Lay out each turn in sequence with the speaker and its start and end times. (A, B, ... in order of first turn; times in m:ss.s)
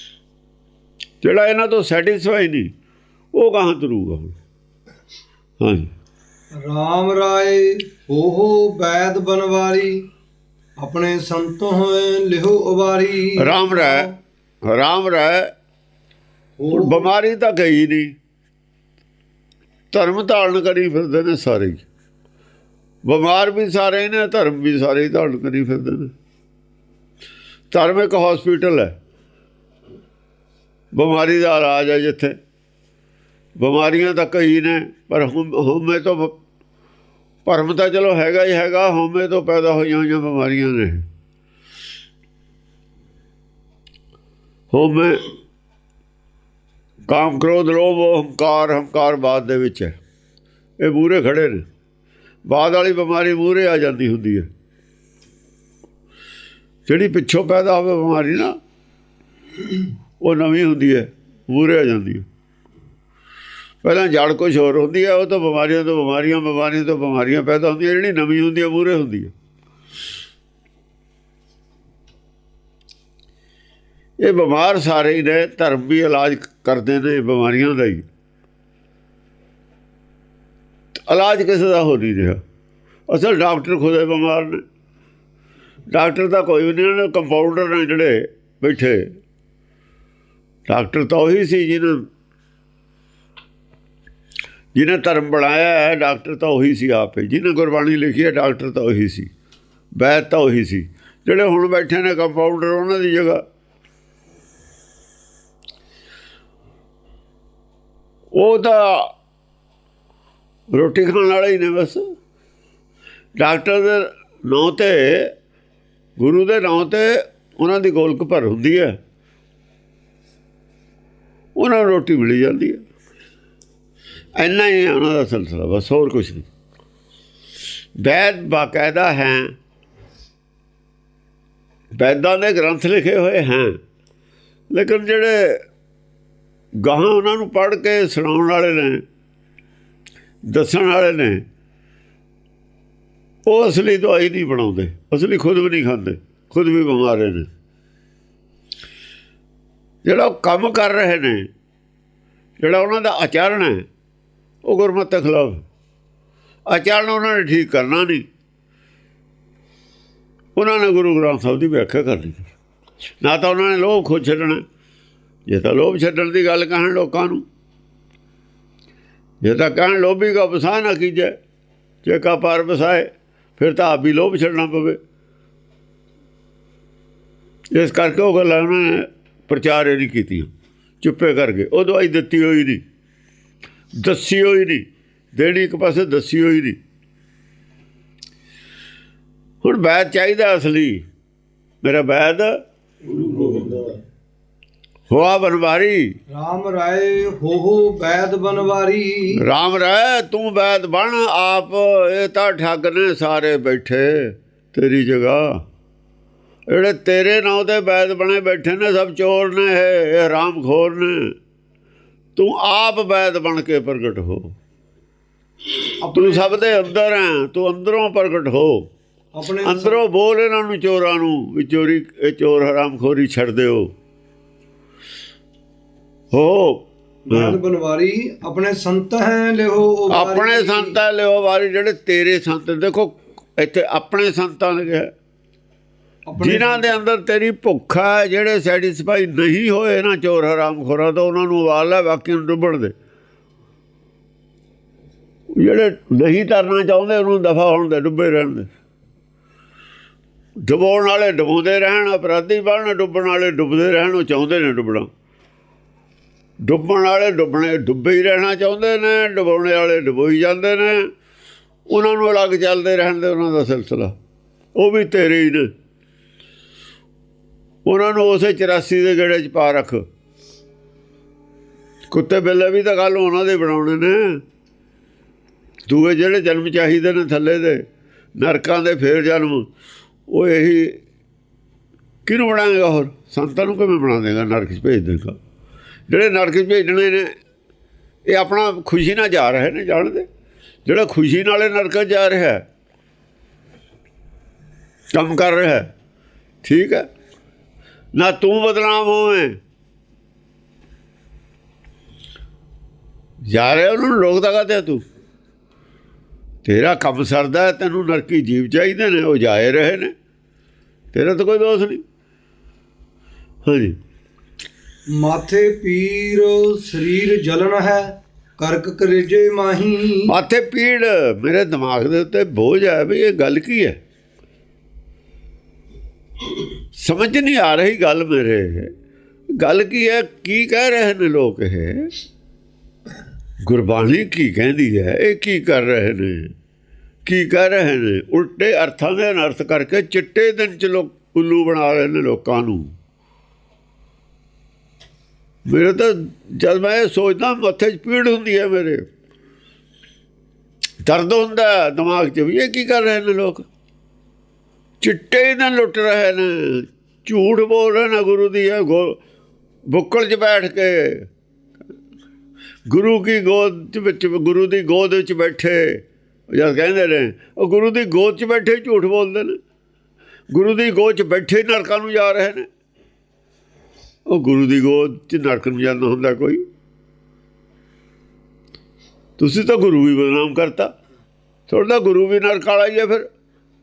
0:01.2-0:02.7 A
0:03.3-0:04.3 A
0:05.6-0:05.9 A
0:06.6-0:10.0 B
0:10.8-0:14.1 B
0:13.4-0:14.1 A
0:14.6-0:15.5 A
0:16.6-0:17.1 B
0:16.7-0:18.1 A
0:19.9-0:21.8 A
0:23.0-0:26.1 A
0:27.7-0:29.0 A
0:30.9-0:32.4 A
0:33.6-0:36.3 A
0:37.4-0:41.0 A
0:44.7-0:45.3 A
0:47.1-0:50.0 A
0:50.8-0:51.6 A
0:52.5-0:54.5 A
0:56.8-0:58.6 A
1:00.2-1:02.2 A
1:03.8-1:09.3 A
1:14.2-1:18.1 A
1:21.0-1:22.4 A
1:23.1-1:24.6 A
1:25.9-1:29.1 A
1:30.7-1:32.1 A
1:34.7-1:39.3 A
1:40.0-1:43.4 A
1:48.3-1:49.1 A
1:50.7-1:52.0 A
1:53.4-1:55.3 A
1:56.2-1:59.0 A
2:01.6-2:02.8 A
2:04.4-2:06.5 A
2:08.0-2:09.5 A
2:11.9-2:13.8 A
2:14.7-2:15.6 A
2:16.8-2:19.0 A
2:20.5-2:21.4 A
2:23.4-2:27.5 A
2:30.0-2:31.5 A
2:32.6-2:33.8 A
2:34.6-2:35.6 A
2:36.7-2:38.2 A
2:40.6-2:42.5 A
2:43.2-2:44.6 A
2:45.5-2:47.4 A
2:49.4-2:51.4 A
2:52.0-2:55.0 A
2:57.7-3:00.5 A
3:01.0-3:02.8 A
3:04.0-3:06.8 A
3:09.6-3:11.0 A
3:11.8-3:12.6 A
3:13.1-3:13.9 B
3:15.1-3:16.2 A
3:16.3-3:19.4 B
3:19.4-3:25.6 A
3:26.7-3:31.3 A
3:32.4-3:34.5 A
3:36.0-3:36.7 B
3:36.1-3:38.9 A
3:39.4-3:40.0 B
3:39.6-3:43.9 A
3:46.3-3:47.6 A
3:47.3-3:51.0 B
3:50.1-3:55.1 A
3:56.3-3:56.9 B
3:56.4-4:02.9 A
4:05.6-4:08.7 A
4:10.6-4:15.1 A
4:16.6-4:21.1 A
4:21.9-4:24.2 A
4:24.7-4:25.7 A
4:27.8-4:30.0 A
4:32.1-4:34.4 A
4:35.9-4:37.8 A
4:38.4-4:39.7 A
4:40.3-4:41.0 A
4:42.2-4:45.4 A
4:46.1-4:47.3 A
4:48.3-4:50.3 A
4:50.8-4:52.6 A
4:55.1-4:55.9 A
4:56.6-4:57.1 A
4:58.1-4:59.6 A
5:03.5-5:05.0 A
5:06.6-5:10.1 A
5:11.1-5:12.0 A
5:13.6-5:14.0 A
5:15.1-5:20.3 B
5:20.3-5:24.0 A
5:26.9-5:28.9 A
5:29.6-5:32.1 A
5:33.6-5:36.5 A
5:37.2-5:42.9 A
5:45.6-5:49.0 A
5:51.0-5:53.6 A
5:55.0-5:59.2 A
5:59.9-6:01.3 A
6:02.9-6:09.6 A
6:10.5-6:12.7 A
6:14.3-6:16.6 A
6:19.4-6:20.9 A
6:21.7-6:23.3 A